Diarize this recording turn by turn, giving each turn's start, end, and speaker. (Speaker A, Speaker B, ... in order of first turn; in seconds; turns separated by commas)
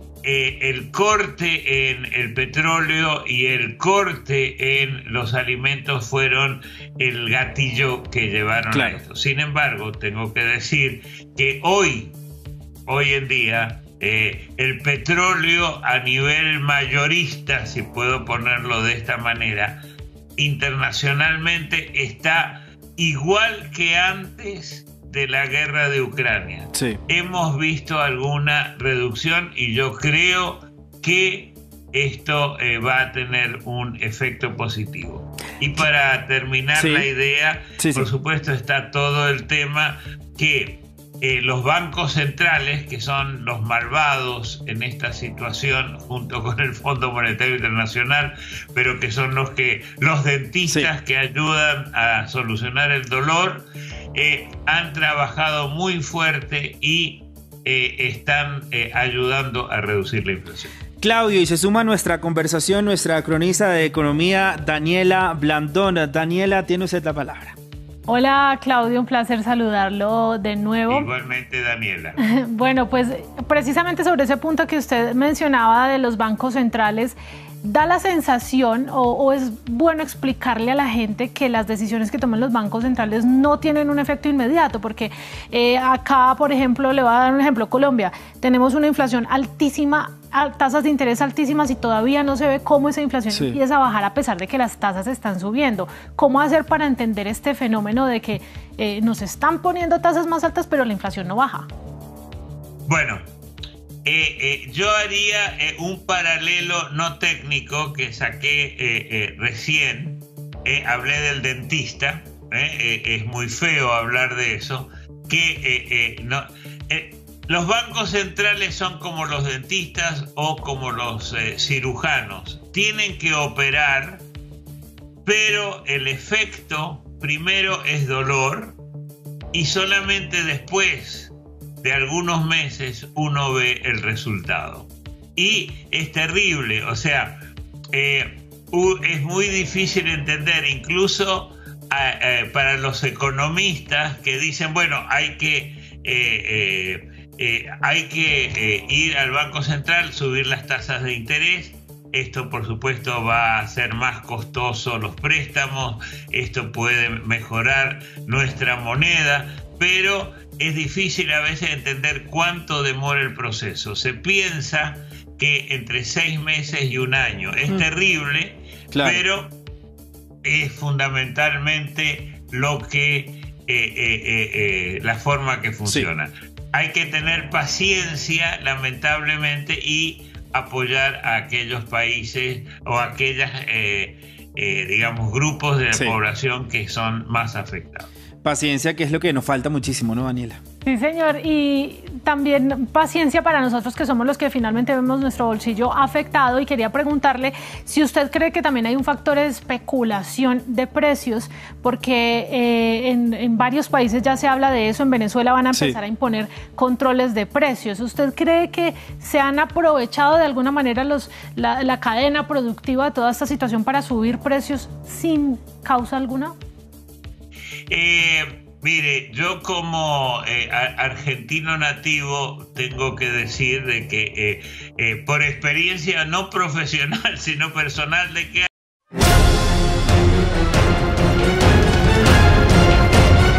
Speaker A: 0.2-12.1, Speaker B: 8.7-9.0, Speaker A: 12.9-19.8, Speaker A: 20.4-60.7, Speaker B: 26.7-27.0, Speaker B: 36.7-37.1, Speaker B: 37.8-38.1, Speaker B: 61.0-67.5, Speaker C: 68.1-71.1, Speaker A: 70.9-72.2, Speaker C: 72.2-101.7, Speaker B: 93.3-93.6, Speaker A: 102.8-103.2, Speaker A: 104.0-124.2, Speaker A: 125.2-128.8, Speaker A: 129.5-137.4, Speaker A: 137.9-169.5, Speaker B: 168.9-169.2, Speaker A: 170.4-188.1, Speaker B: 185.9-186.2, Speaker B: 188.4-190.6, Speaker C: 190.8-216.6, Speaker A: 217.9-228.7